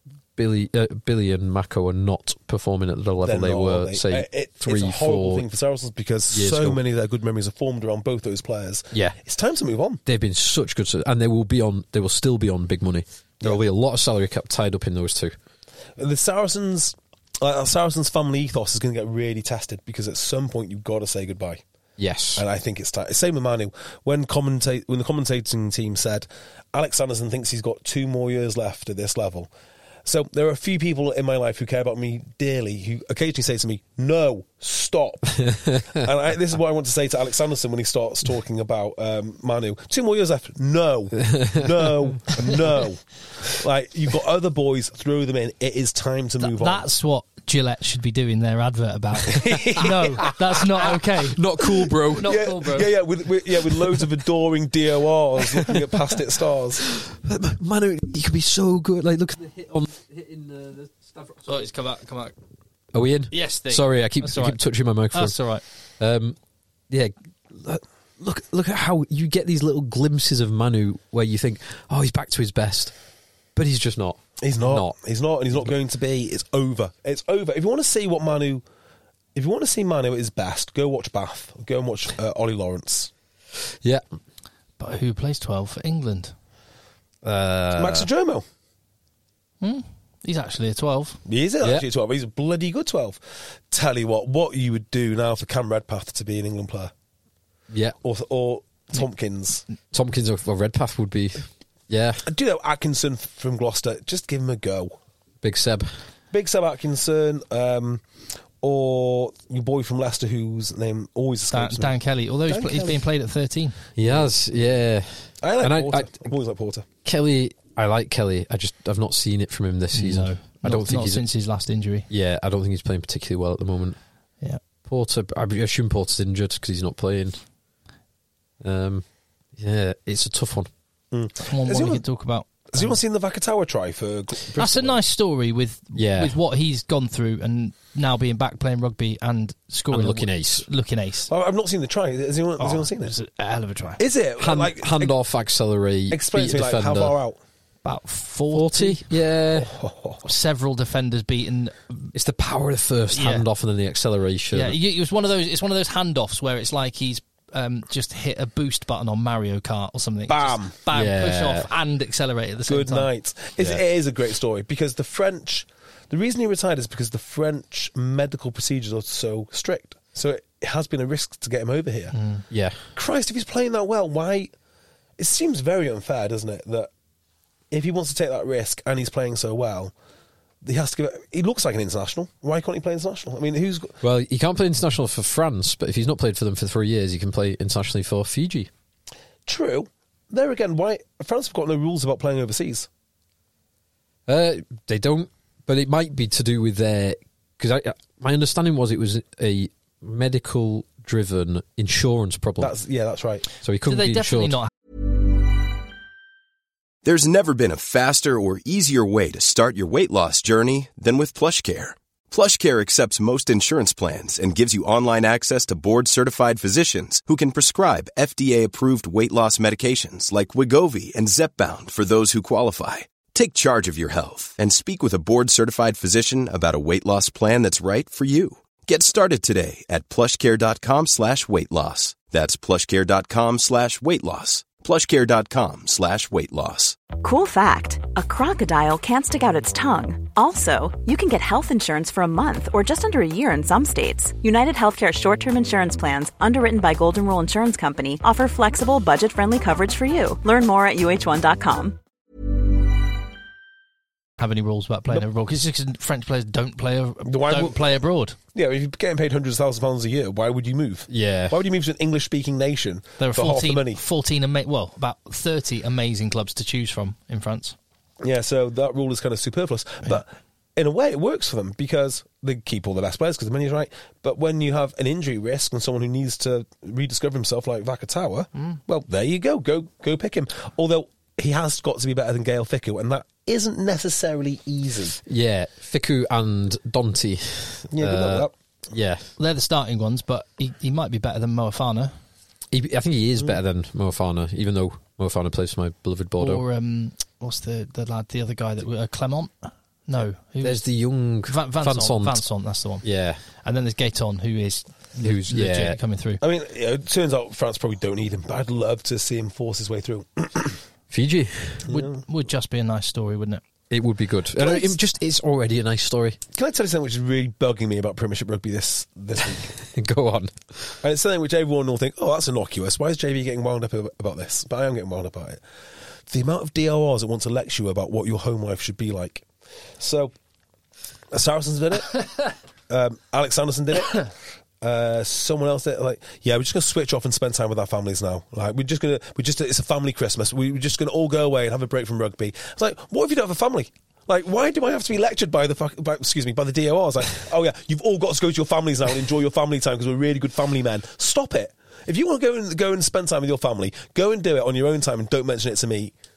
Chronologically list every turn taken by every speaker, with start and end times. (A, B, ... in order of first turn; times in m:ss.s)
0:00.4-0:05.4 A
0:03.2-0:10.0 B
0:06.3-0:06.8 A
0:08.9-0:09.2 A
0:10.0-0:15.3 A
0:16.0-0:21.6 B
0:22.0-0:22.4 A
0:22.4-0:29.5 B
0:30.0-0:46.8 B
0:35.4-0:36.0 A
0:41.3-0:42.5 A
0:46.4-0:51.4 C
0:49.3-0:50.3 B
0:49.5-0:52.5 A
0:52.2-0:52.9 C
0:52.2-0:56.9 B
0:55.6-0:55.8 A
0:56.9-1:01.7 A
1:01.5-1:02.3 C
1:02.9-1:05.3 A
1:03.3-1:04.6 C
1:05.1-1:05.6 C
1:06.0-1:06.4 A
1:06.9-1:12.9 A
1:13.6-1:14.9 A
1:14.4-1:18.6 B
1:19.3-1:23.1 B
1:24.8-1:26.3 C
1:27.2-1:28.1 A
1:27.7-1:28.4 B
1:29.6-1:31.2 C
1:31.2-1:36.9 B
1:37.7-1:38.0 A
1:38.0-1:39.6 B
1:39.9-1:42.2 A
1:42.2-1:45.0 B
1:45.4-1:46.0 A
1:46.3-1:48.0 B
1:48.6-1:52.0 B
1:51.5-1:53.8 C
1:52.5-1:53.0 B
1:54.0-1:56.3 A
1:55.4-1:56.8 B
1:57.0-2:01.2 A
1:59.9-2:02.1 C
2:02.1-2:04.0 A
2:04.8-2:07.4 A
2:08.6-2:09.0 A
2:09.6-2:10.7 A
2:11.1-2:12.0 B
2:11.5-2:12.9 C
2:12.7-2:15.0 B
2:14.6-2:21.3 C
2:15.9-2:16.4 A
2:19.9-2:20.6 A
2:21.3-2:23.1 B
2:22.6-2:24.0 C
2:24.0-2:25.1 B
2:24.4-2:27.2 A
2:26.1-2:27.4 B
2:27.8-2:29.0 C
2:28.5-2:29.7 A
2:29.6-2:30.2 B
2:30.2-2:32.1 C
2:32.1-2:34.8 A
2:33.1-2:33.4 C
2:34.5-2:43.1 C
2:40.3-2:40.7 B
2:40.9-2:41.7 A
2:42.7-2:52.1 B
2:52.1-2:52.4 C
2:52.5-2:52.8 A
2:52.9-2:54.5 B
2:55.2-2:56.9 B
2:57.7-2:59.9 B
3:00.6-3:04.0 B
3:04.0-3:08.7 A
3:09.4-3:12.9 B
3:14.3-3:22.7 A
3:22.6-3:23.4 B
3:23.6-3:24.6 A
3:23.9-3:24.7 C
3:27.0-3:57.0 D
3:57.1-4:12.0 E
4:14.4-4:18.4 C
4:17.2-4:17.8 B
4:18.5-4:24.0 B
4:21.1-4:21.6 A
4:23.2-4:27.8 C
4:28.2-4:45.2 B
4:45.3-4:49.3 A
4:47.9-4:48.5 B
4:49.4-4:52.1 C
4:52.7-4:56.6 A
4:56.4-5:00.8 C
5:00.6-5:02.4 A
5:01.4-5:03.0 C
5:03.0-5:03.4 A
5:03.6-5:06.4 C
5:05.2-5:06.0 A
5:06.4-5:10.8 B
5:11.1-5:11.9 A
5:11.9-5:13.6 C
5:11.9-5:12.2 B
5:13.9-5:16.4 A
5:14.6-5:15.0 B
5:16.5-5:19.7 B
5:19.8-5:20.5 A
5:21.0-5:25.6 B
5:26.3-5:29.4 B
5:30.0-5:30.3 B
5:31.3-5:34.3 B
5:34.8-5:56.1 B